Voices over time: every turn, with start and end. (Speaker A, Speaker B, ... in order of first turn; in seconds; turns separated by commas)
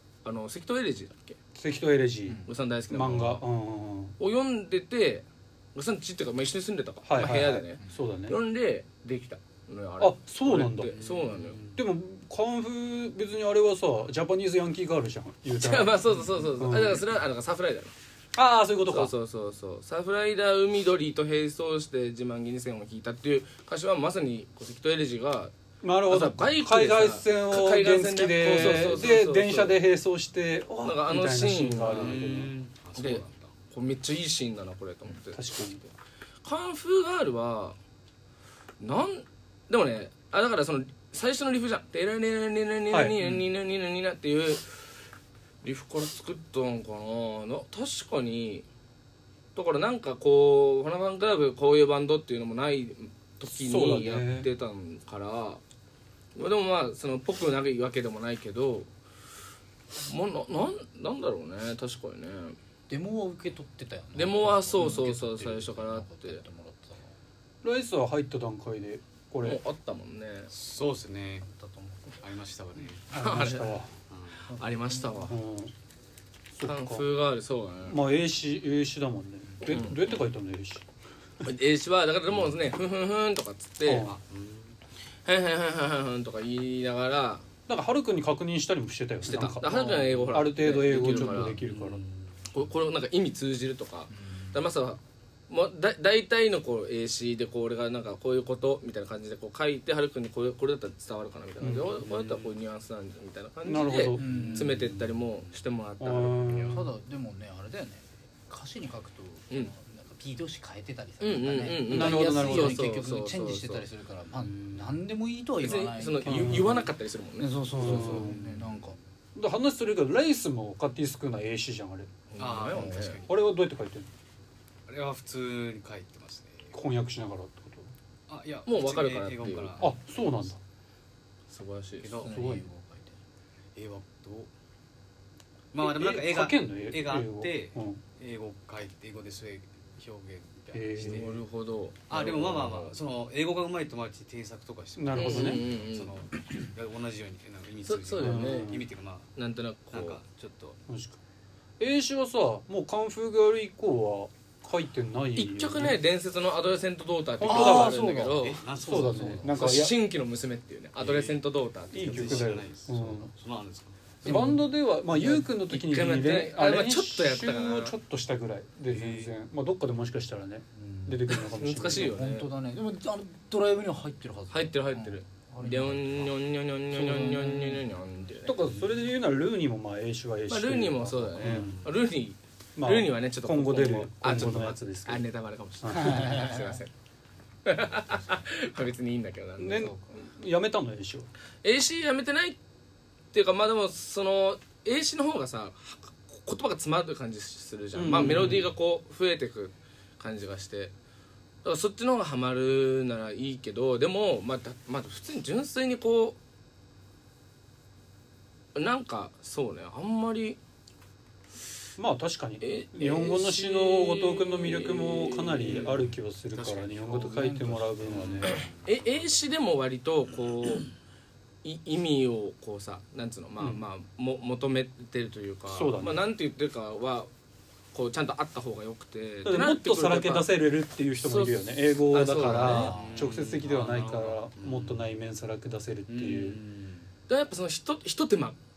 Speaker A: 0.2-1.4, Speaker B: 1.6-4.2, Speaker A: 2.5-3.5, Speaker A: 4.2-11.6, Speaker B: 7.0-8.4, Speaker C: 7.4-8.0, Speaker B: 10.0-11.0, Speaker D: 10.9-11.8, Speaker B: 11.7-17.1, Speaker A: 15.6-17.9, Speaker B: 18.4-19.1, Speaker A: 18.9-25.5, Speaker B: 25.8-32.5, Speaker A: 26.0-29.8, Speaker A: 30.8-32.2, Speaker D: 31.9-33.5, Speaker A: 33.0-35.9, Speaker B: 35.3-35.8, Speaker A: 36.4-37.8, Speaker A: 38.8-44.8, Speaker B: 42.9-43.5, Speaker A: 45.6-48.7, Speaker A: 49.5-55.6, Speaker B: 53.5-54.5, Speaker A: 56.4-58.9, Speaker A: 60.1-62.6, Speaker C: 62.9-67.1, Speaker A: 64.1-66.4, Speaker B: 67.6-69.6, Speaker A: 69.4-70.5, Speaker D: 70.5-71.5, Speaker C: 71.4-72.1, Speaker D: 72.2-73.1, Speaker A: 73.1-73.8, Speaker B: 73.1-73.9, Speaker D: 74.1-74.6, Speaker A: 74.5-75.4, Speaker B: 75.3-75.7, Speaker B: 76.5-77.1, Speaker A: 76.6-78.0, Speaker B: 77.9-80.9, Speaker A: 79.7-80.3, Speaker A: 81.4-84.1, Speaker B: 83.8-84.1, Speaker D: 84.0-84.8, Speaker A: 85.2-87.4, Speaker B: 87.7-92.0, Speaker A: 89.2-91.6, Speaker D: 90.9-92.7, Speaker A: 92.5-106.9, Speaker C: 94.1-94.6, Speaker B: 101.6-102.0, Speaker D: 102.0-102.5, Speaker B: 103.6-104.4, Speaker C: 104.2-105.0, Speaker D: 104.2-105.6, Speaker B: 106.0-106.8, Speaker C: 106.7-119.0, Speaker A: 111.2-113.9, Speaker B: 111.9-112.8, Speaker D: 114.3-114.9, Speaker A: 115.6-118.3, Speaker B: 116.2-116.9, Speaker B: 117.7-118.4, Speaker D: 117.9-118.9, Speaker B: 119.3-122.1, Speaker A: 122.3-123.2, Speaker D: 122.4-123.4, Speaker C: 122.7-123.2, Speaker B: 123.2-124.1, Speaker D: 124.9-126.8, Speaker B: 126.7-127.9, Speaker D: 128.3-130.0, Speaker A: 128.7-129.8, Speaker B: 129.8-130.6, Speaker A: 131.5-132.2, Speaker D: 132.0-132.7, Speaker C: 132.1-133.2, Speaker D: 133.8-134.5, Speaker D: 135.7-141.4, Speaker B: 135.8-138.0, Speaker B: 140.7-141.4, Speaker A: 141.0-143.0, Speaker D: 142.1-149.3, Speaker B: 145.0-145.6, Speaker A: 145.1-146.4, Speaker A: 147.9-148.7, Speaker B: 148.2-148.8, Speaker A: 149.4-150.2, Speaker D: 149.9-150.8, Speaker B: 150.9-151.2, Speaker B: 151.8-156.0, Speaker A: 155.4-158.6, Speaker B: 157.4-159.9, Speaker C: 157.5-159.7, Speaker D: 158.3-159.4, Speaker A: 159.4-162.5, Speaker D: 161.0-161.4, Speaker B: 161.9-163.3, Speaker D: 161.9-164.0, Speaker C: 164.2-165.5, Speaker B: 164.2-172.2, Speaker A: 165.7-168.0, Speaker D: 168.9-169.3, Speaker C: 170.8-176.3, Speaker A: 171.5-172.5, Speaker A: 174.5-178.6, Speaker C: 176.9-177.9, Speaker B: 178.4-181.7, Speaker A: 180.5-186.9, Speaker D: 181.5-181.9, Speaker B: 182.8-185.3, Speaker B: 185.8-186.3, Speaker C: 185.9-186.8, Speaker A: 187.7-189.9, Speaker C: 188.0-188.4, Speaker B: 189.6-191.3, Speaker C: 189.8-190.1, Speaker A: 191.6-192.6, Speaker A: 193.3-200.9, Speaker B: 197.9-198.7, Speaker A: 201.6-206.4, Speaker A: 208.8-210.6, Speaker B: 212.0-218.6, Speaker A: 212.6-215.9, Speaker D: 215.6-219.4, Speaker C: 217.2-218.5, Speaker A: 218.8-220.9, Speaker A: 221.6-227.3, Speaker B: 223.6-223.8, Speaker B: 225.7-226.3, Speaker A: 227.9-230.5, Speaker B: 229.4-236.6, Speaker A: 231.2-233.0, Speaker C: 232.7-233.3, Speaker D: 232.7-235.1, Speaker D: 236.1-237.1, Speaker A: 237.3-238.6